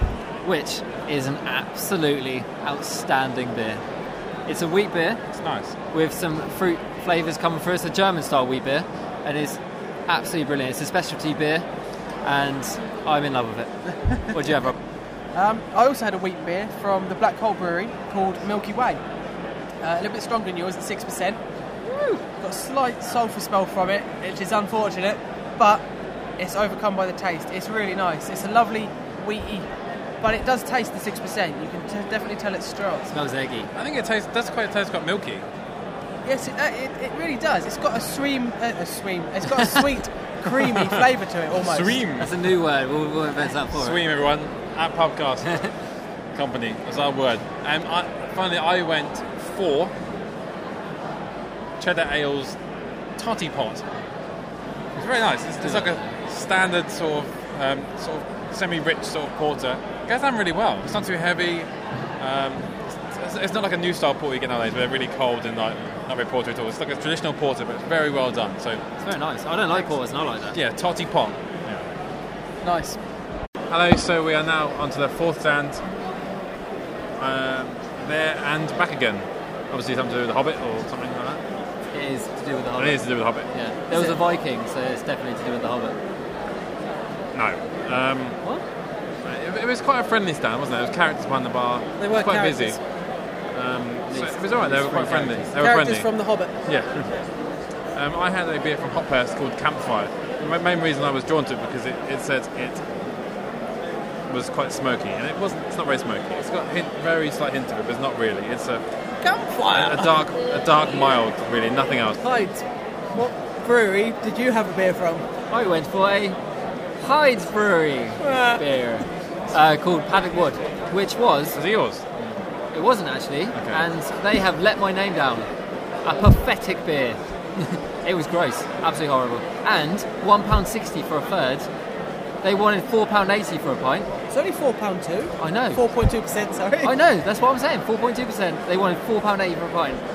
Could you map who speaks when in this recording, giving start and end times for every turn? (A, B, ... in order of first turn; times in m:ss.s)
0:00.4-0:03.8 A
0:04.5-0:05.2 A
0:05.3-0:05.8 B
0:05.9-0:11.6 A
0:12.2-0:13.7 A
0:14.1-0:14.4 C
0:14.3-0:14.8 A
0:15.4-0:19.0 C
0:19.8-0:21.4 C
0:21.8-0:22.2 A
0:22.4-0:25.8 C
0:26.4-0:29.7 C
0:30.2-0:33.1 C
0:33.1-0:33.7 A
0:33.7-0:35.4 B
0:36.2-0:42.0 C
0:41.6-0:42.3 B
0:42.2-0:44.0 A
0:43.8-0:45.5 B
0:46.3-0:49.9 B
0:51.8-0:52.6 B
0:53.2-0:53.8 B
0:55.0-1:01.7 B
0:55.6-0:56.1 A
1:02.2-1:08.8 B
1:09.0-1:10.6 A
1:10.5-1:11.9 B
1:12.6-1:13.0 C
1:13.7-1:15.8 B
1:17.2-1:21.4 B
1:21.9-1:26.0 A
1:22.8-1:23.5 B
1:23.9-1:24.2 C
1:27.3-1:28.4 B
1:29.2-1:32.8 B
1:32.0-1:32.8 C
1:33.5-1:36.1 B
1:34.1-1:35.5 A
1:35.6-1:36.5 C
1:36.7-1:37.1 B
1:37.9-1:42.8 B
1:44.3-1:48.8 B
1:49.2-1:50.1 C
1:49.7-1:52.2 B
1:52.2-1:55.2 C
1:55.5-1:56.4 A
1:57.0-2:01.6 A
1:58.2-1:58.6 C
2:01.5-2:02.4 B
2:02.7-2:05.5 A
2:03.5-2:03.8 B
2:06.0-2:11.7 A
2:12.4-2:14.1 A
2:14.3-2:16.9 C
2:15.4-2:15.8 A
2:16.8-2:20.0 A